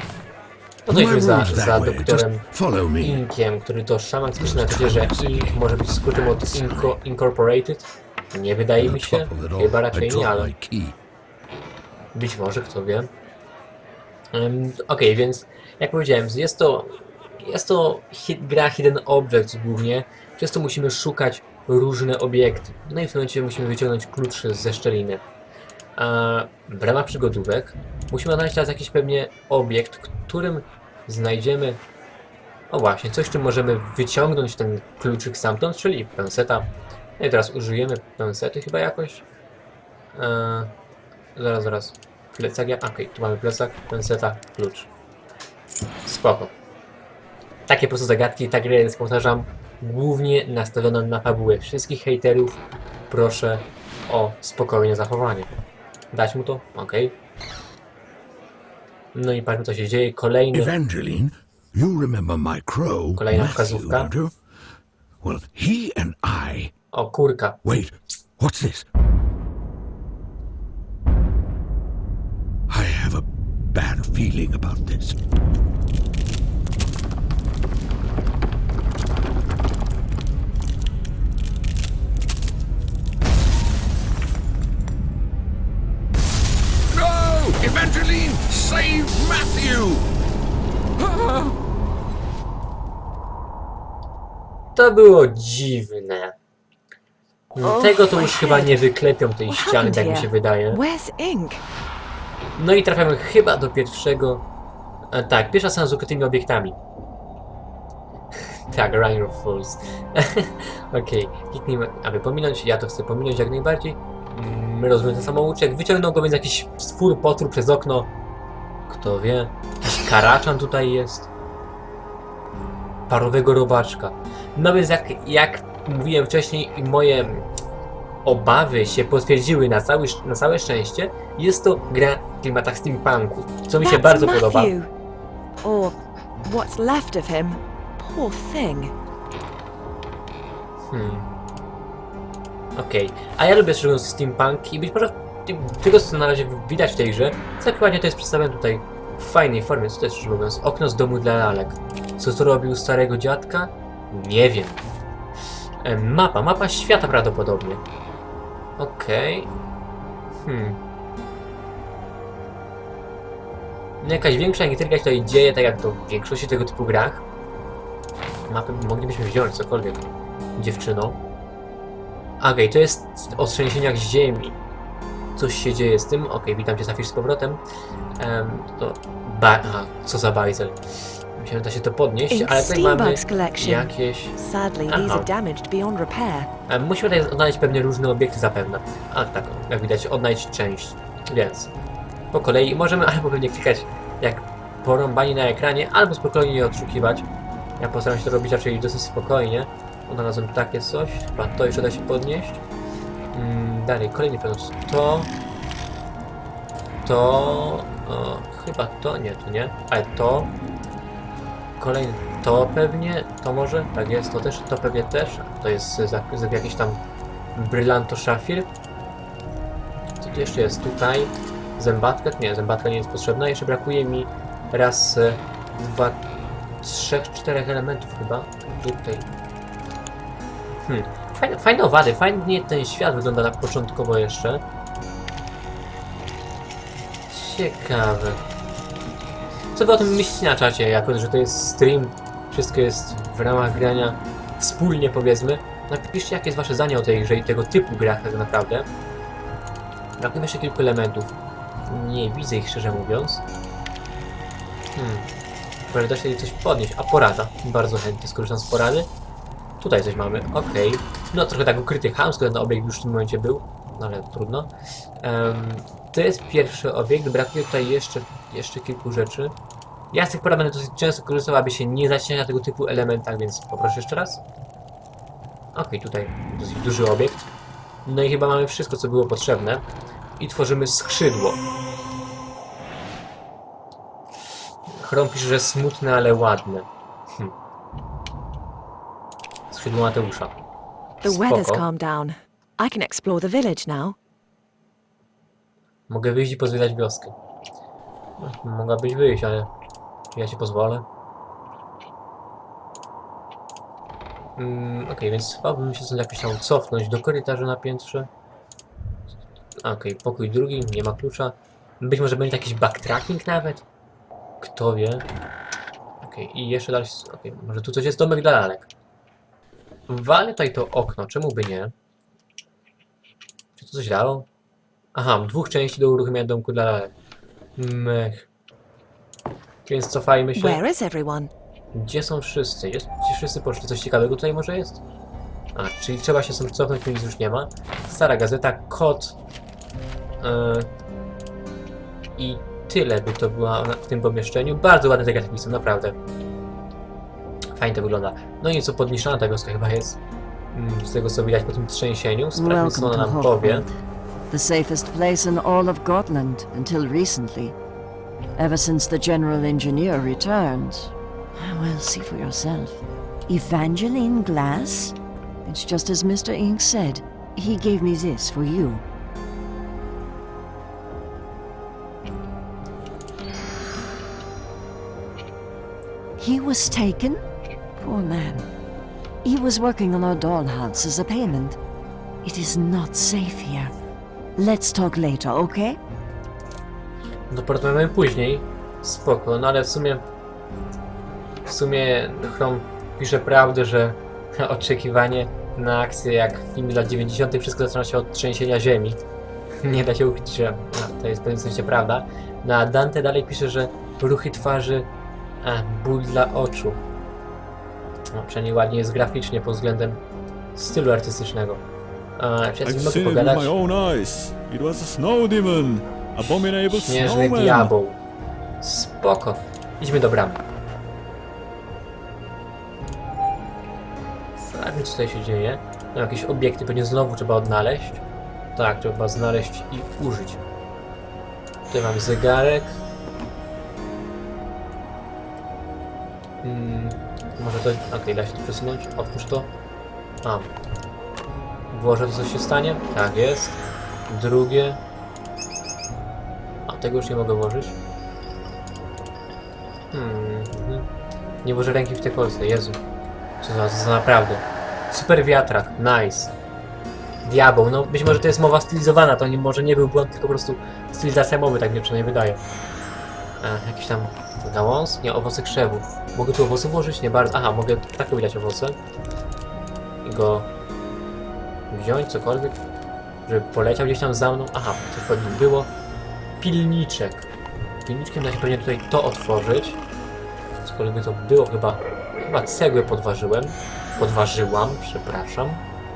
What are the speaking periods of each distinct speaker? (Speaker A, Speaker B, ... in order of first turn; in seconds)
Speaker A: 0.8-2.5, 3.0-10.5, 12.1-13.1, 14.3-25.2, 25.9-31.8, 32.7-39.2, 40.1-40.7, 41.4-44.9, 46.0-46.5, 47.7-52.6, 53.1-55.5, 56.1-57.1, 59.1-60.7, 63.1-64.1, 66.9-67.6, 94.8-96.3, 97.5-100.8, 102.6-104.4, 105.1-106.8, 108.7-118.1, 118.9-121.3, 123.1-127.5, 128.2-134.7, 140.9-141.3, 142.8-154.8, 155.8-157.8, 158.8-159.5, 160.4-160.8, 164.0-167.2, 168.5-170.0, 170.6-171.2, 172.4-174.6, 175.3-177.6, 178.2-180.8, 181.3-184.3, 184.9-185.3, 186.7-191.7, 192.3-197.3, 197.8-202.6, 203.3-205.3, 207.0-210.5, 211.8-217.0, 217.5-218.7, 220.2-226.2, 226.8-229.3, 230.8-234.6, 237.3-238.4, 239.7-248.9, 250.2-251.3, 251.9-253.4, 254.9-255.3, 255.9-259.1, 259.8-269.5, 270.1-274.4, 275.7-277.5, 278.1-279.8, 280.4-281.6, 284.9-287.5, 289.7-290.5, 291.2-291.8, 296.1-297.3, 298.4-299.7, 300.3-301.1, 304.6-308.3, 309.8-313.8, 314.6-315.2, 316.2-318.9, 320.1-321.9, 323.8-324.5, 325.1-327.1, 327.8-328.5, 329.9-330.8, 331.9-335.0, 335.7-339.4, 340.4-340.9, 342.4-346.2, 347.7-350.2, 350.7-353.8, 387.5-390.2, 391.6-399.2, 399.8-405.1, 405.6-407.0, 408.3-410.2, 410.7-411.8, 412.4-413.7, 416.5-418.2, 418.8-420.6, 424.6-428.2, 428.8-430.6, 431.9-433.0, 436.6-439.7, 440.4-440.7, 441.9-445.0, 446.8-447.9, 450.1-451.1, 451.6-453.0, 453.6-456.5, 457.4-462.6, 463.6-469.0, 470.2-470.7, 471.9-472.8, 473.4-475.9, 476.6-477.5, 478.0-480.0, 480.8-485.8
Speaker B: 0.9-3.2, 4.4-7.0, 8.8-10.9, 60.5-64.4, 65.2-66.7, 67.6-68.8, 72.7-75.2, 86.9-90.0, 91.0-91.5
Speaker C: 97.6-98.5, 352.5-353.9, 354.5-357.8, 358.6-369.0, 376.4-377.4, 377.9-378.7, 379.4-381.8, 382.4-383.9, 384.6-386.0
Speaker D: 99.5-101.6, 133.8-134.9, 135.6-138.9, 182.3-186.5, 291.2-294.2, 330.6-331.5
Speaker E: 412.8-417.9